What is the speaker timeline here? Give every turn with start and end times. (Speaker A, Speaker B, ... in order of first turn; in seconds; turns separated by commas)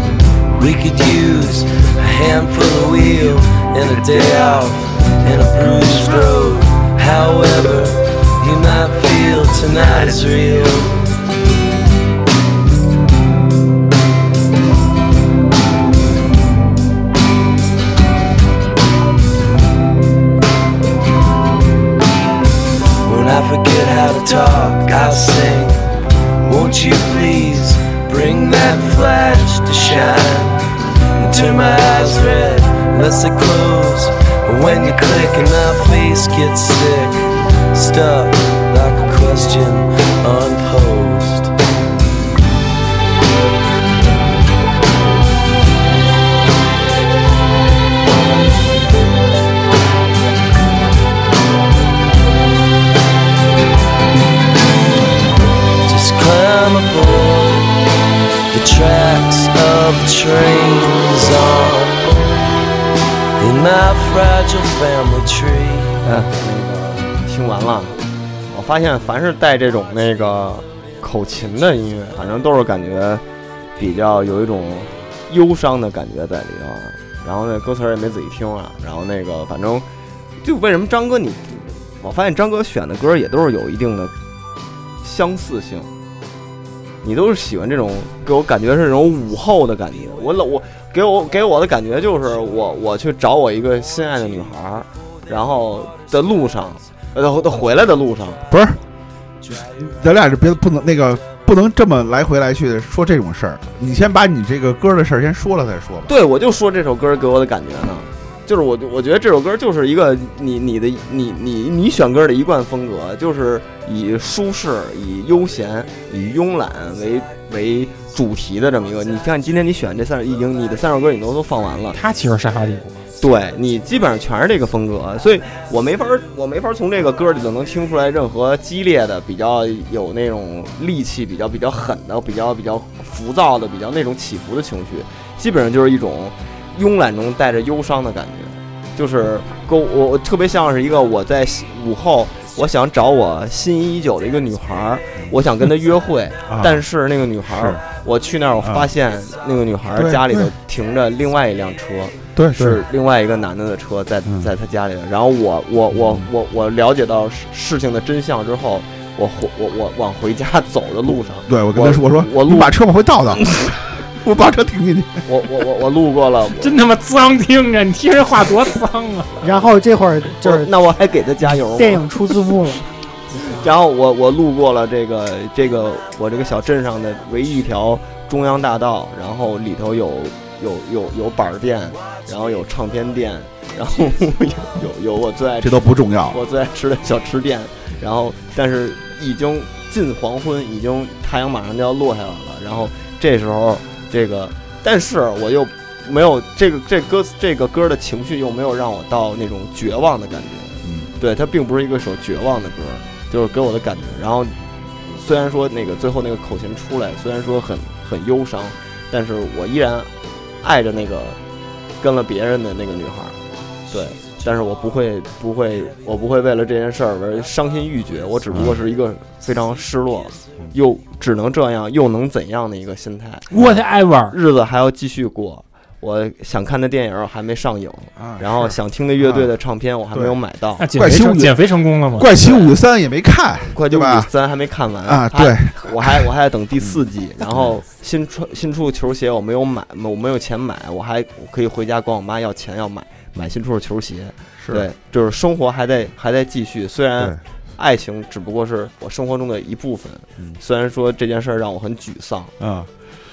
Speaker A: 0.6-11.0, Speaker A: 23.0-25.8, Speaker A: 26.4-41.5, Speaker A: 55.9-57.7, Speaker A: 58.5-62.1, Speaker A: 63.4-66.1, Speaker B: 66.0-68.0, Speaker B: 68.5-73.2, Speaker B: 73.8-79.8, Speaker B: 80.4-84.1, Speaker B: 85.0-85.9, Speaker B: 87.0-98.4, Speaker C: 98.5-98.8, Speaker C: 99.8-106.1, Speaker B: 106.1-122.0, Speaker D: 121.9-123.0, Speaker B: 123.2-162.7, Speaker C: 146.5-146.8, Speaker C: 147.5-147.8, Speaker C: 148.6-148.9, Speaker C: 149.9-150.5, Speaker C: 152.3-152.8, Speaker C: 155.9-156.3, Speaker C: 161.4-165.2, Speaker B: 163.3-163.7, Speaker B: 165.3-166.8, Speaker D: 166.6-169.3, Speaker E: 169.4-170.7, Speaker B: 170.4-172.4, Speaker E: 171.8-172.8, Speaker B: 173.4-210.1, Speaker C: 185.6-186.4, Speaker C: 200.8-201.1, Speaker B: 210.6-211.4, Speaker B: 212.0-213.4, Speaker B: 213.9-223.5, Speaker C: 218.5-218.8, Speaker D: 223.5-224.3, Speaker B: 224.3-230.8, Speaker C: 228.2-229.5, Speaker D: 230.8-232.3, Speaker C: 230.9-231.6, Speaker C: 232.1-234.3, Speaker B: 232.3-232.8, Speaker B: 233.7-252.5, Speaker C: 235.1-236.2, Speaker C: 236.8-237.7, Speaker C: 244.6-244.8, Speaker C: 252.6-252.9